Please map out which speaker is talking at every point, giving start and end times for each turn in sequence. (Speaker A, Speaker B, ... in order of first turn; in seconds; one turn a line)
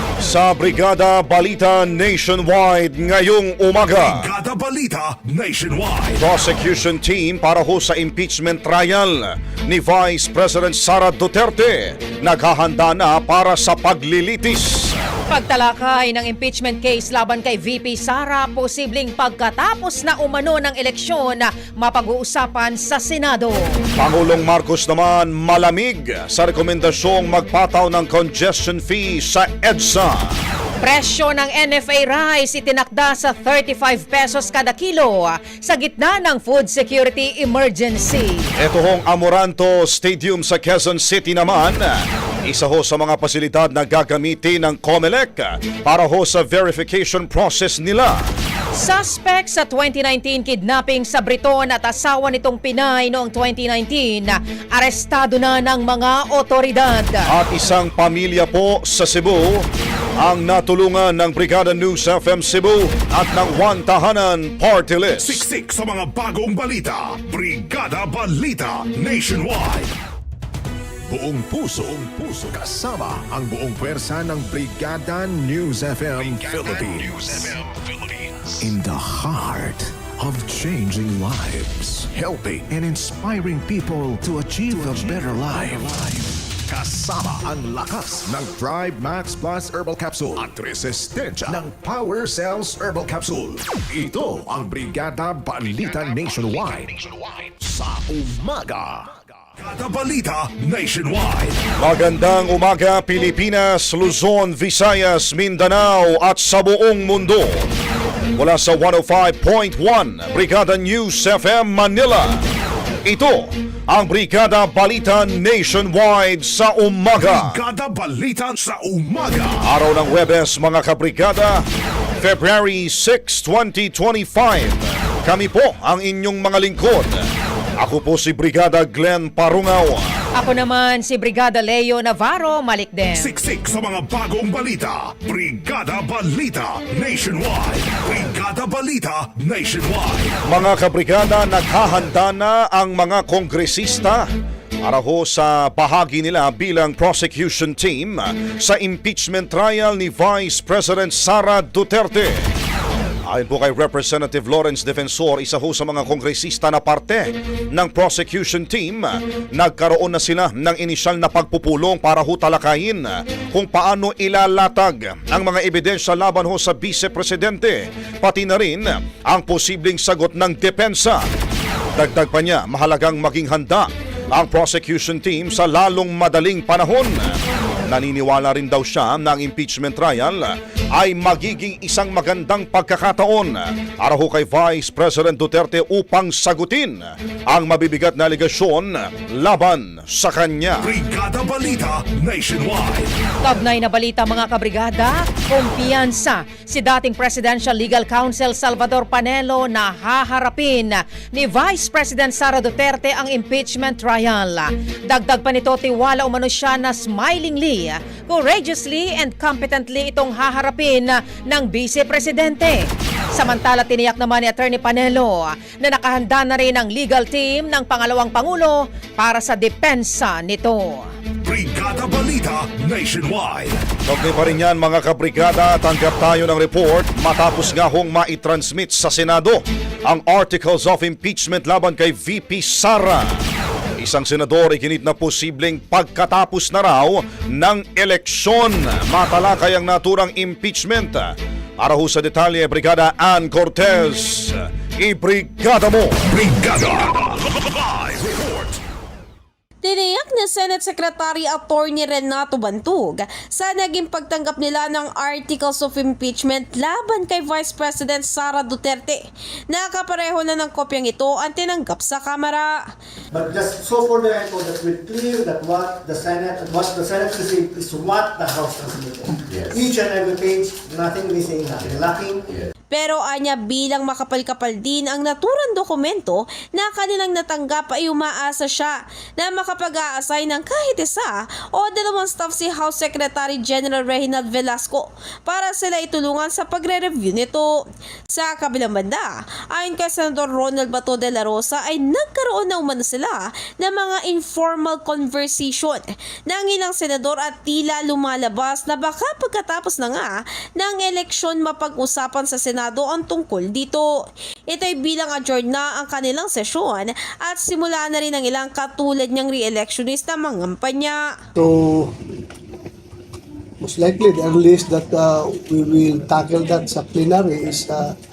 Speaker A: 0.2-4.2
Speaker B: 3.9-6.2
Speaker A: 6.2-15.0
Speaker C: 15.3-23.8
Speaker A: 24.0-30.3
Speaker C: 30.8-38.5
Speaker A: 38.6-48.3
Speaker C: 48.8-57.3
Speaker A: 57.3-59.7
Speaker A: 60.2-65.4
Speaker B: 65.2-69.9
Speaker D: 71.1-99.2
Speaker B: 99.6-101.6
Speaker A: 101.8-107.7
Speaker A: 108.3-112.4
Speaker A: 113.0-117.6
Speaker B: 117.2-119.6
Speaker A: 119.6-121.6
Speaker A: 122.2-127.2
Speaker A: 127.8-130.1
Speaker C: 130.3-133.3
Speaker B: 133.1-140.3
Speaker A: 140.4-144.2
Speaker A: 144.8-152.4
Speaker A: 153.3-171.2
Speaker A: 171.9-177.3
Speaker A: 177.9-190.9
Speaker B: 190.8-193.1
Speaker C: 193.4-221.1
Speaker B: 221.4-223.8
Speaker A: 224.1-233.4
Speaker A: 234.0-246.2
Speaker B: 246.3-248.8
Speaker E: 249.8-262.8
Speaker F: 263.3-272.5
Speaker E: 272.9-287.7
Speaker E: 288.3-311.4
Speaker G: 311.6-312.2
Speaker G: 313.8-318.1